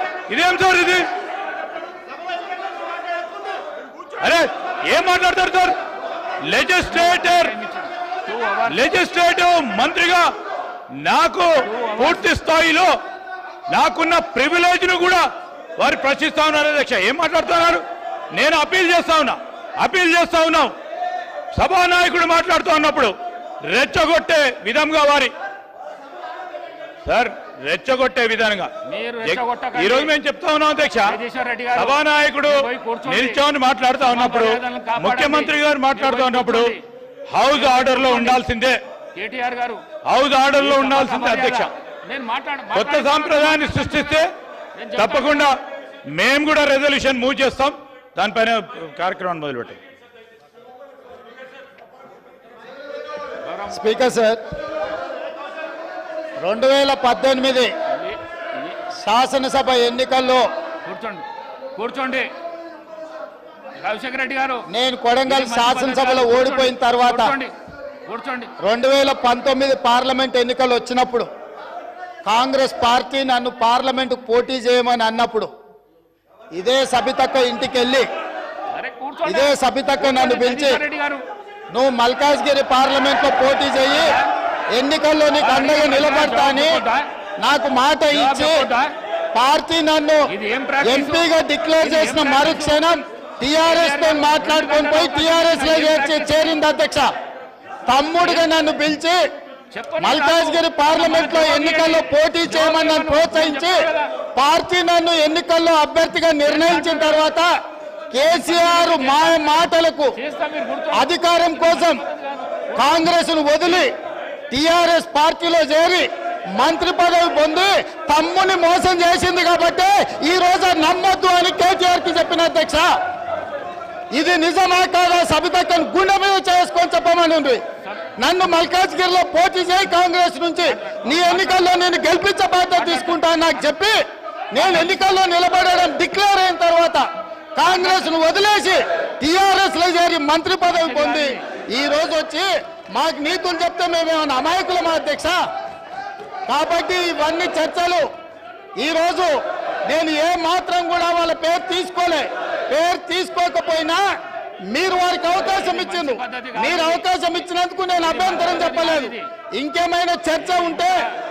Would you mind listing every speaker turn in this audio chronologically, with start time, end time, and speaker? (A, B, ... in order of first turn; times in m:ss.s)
0:00.3-0:01.1 A
0:04.2-0:05.8 A
0:06.5-0:07.5 A
0:06.8-0:08.9 B
0:08.7-0:10.3 A
0:11.0-0:12.9 A
0:11.6-0:12.4 B
0:13.7-0:15.3 A
0:15.8-0:20.8 A
0:21.5-0:23.1 A
0:23.7-0:25.3 A
0:27.0-0:28.7 A
0:28.9-0:30.2 B
0:29.2-0:31.2 A
0:31.1-0:33.4 B
0:31.8-0:36.7 A
0:34.0-0:36.8 B
0:37.3-0:38.8 A
0:37.5-0:38.4 B
0:39.2-0:39.8 B
0:40.0-0:41.7 A
0:40.6-0:44.2 B
0:42.7-0:44.3 A
0:44.8-0:45.5 B
0:45.0-0:45.6 A
0:46.1-0:49.8 A
0:53.4-0:54.1 B
0:53.7-0:54.4 C
0:56.4-0:57.7 C
0:57.9-0:58.8 B
0:59.0-1:00.5 C
1:00.8-1:01.2 B
1:01.8-1:02.3 B
1:03.8-1:04.6 B
1:04.7-1:07.4 C
1:05.3-1:07.5 B
1:08.1-1:08.5 B
1:08.6-1:11.3 C
1:12.2-1:15.5 C
1:16.5-1:18.1 C
1:18.7-1:21.2 B
1:19.2-1:20.8 C
1:21.7-1:24.2 C
1:23.9-1:24.3 B
1:24.7-1:26.8 C
1:25.4-1:27.1 B
1:27.4-1:28.7 C
1:28.1-1:28.9 B
1:29.3-1:37.1 C
1:30.3-1:32.8 B
1:33.6-1:36.6 B
1:37.9-1:39.2 C
1:38.2-1:38.5 B
1:39.7-1:44.1 B
1:40.0-1:47.5 C
1:46.4-1:47.3 B
1:48.1-1:50.2 C
1:48.3-1:53.1 B
1:50.9-1:52.0 C
1:52.8-1:53.9 C
1:54.5-2:02.9 C
2:04.1-2:07.6 C
2:08.2-2:14.0 C
2:10.6-2:11.9 B
2:12.8-2:13.7 B
2:14.5-2:25.4 C
2:14.6-2:15.0 B
2:17.7-2:18.1 B
2:20.7-2:21.4 B
2:26.5-2:28.1 C
2:28.8-2:34.0 C
2:34.7-2:41.0 C
2:35.4-2:37.1 B
2:38.0-2:39.3 B
2:40.4-2:41.2 B